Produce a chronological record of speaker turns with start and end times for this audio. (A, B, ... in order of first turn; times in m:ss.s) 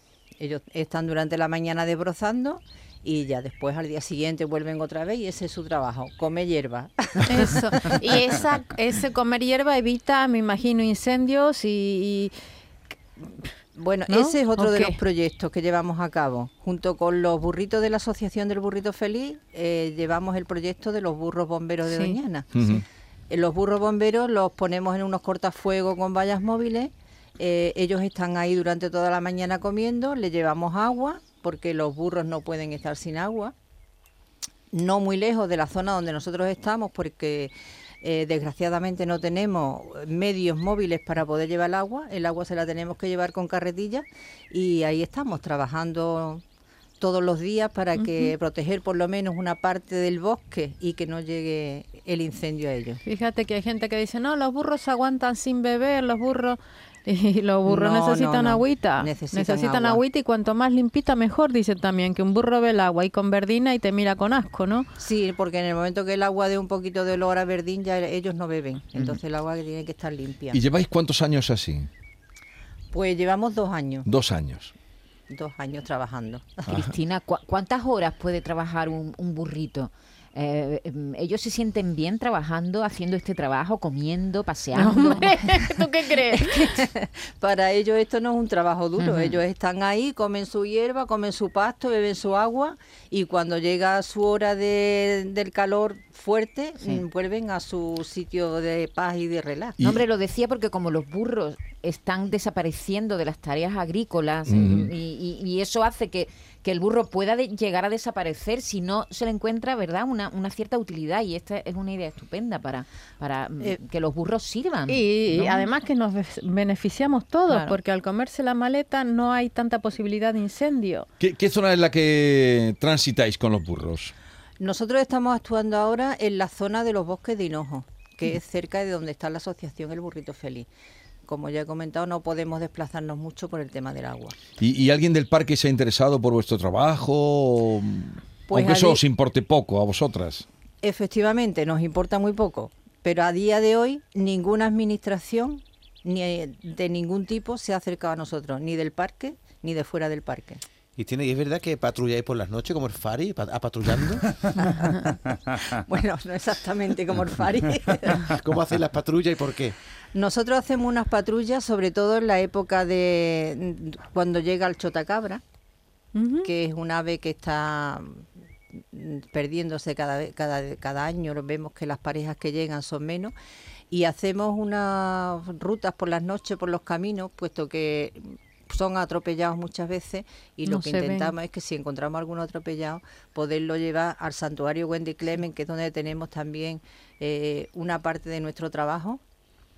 0:00.4-0:08.0 A
0:07.3-0:12.3 B
0:13.8-0:22.5 A
0:14.1-0:15.0 B
0:21.9-0:22.2 B
0:22.5-0:22.8 C
0:23.3-0:33.5 A
0:34.7-0:46.4 A
0:47.0-0:53.0 A
0:48.0-0:48.3 B
0:53.0-1:04.9 B
0:57.7-1:00.0 A
1:05.0-1:10.6 A
1:10.5-1:11.9 C
1:12.9-1:14.1 A
1:14.1-1:14.8 C
1:15.3-1:16.7 A
1:16.7-1:16.9 C
1:16.7-1:25.3 D
1:24.7-1:26.8 B
1:26.5-1:39.8 A
1:29.0-1:29.4 D
1:39.8-1:40.0 C
1:39.8-1:55.8 D
1:44.4-1:44.9 C
1:54.9-2:01.1 B
1:57.5-1:57.8 D
2:01.2-2:04.1 C
2:04.6-2:10.7 A
2:11.3-2:14.4 A
2:14.6-2:20.5 C
2:18.5-2:19.0 A
2:20.8-2:30.6 A
2:31.0-2:34.9 E
2:34.6-2:35.0 A
2:35.7-2:38.3 A
2:38.4-2:39.8 E
2:40.1-2:45.4 A
2:46.2-2:46.5 B
2:46.4-2:53.3 A
2:53.9-3:09.2 A
3:00.7-3:01.3 B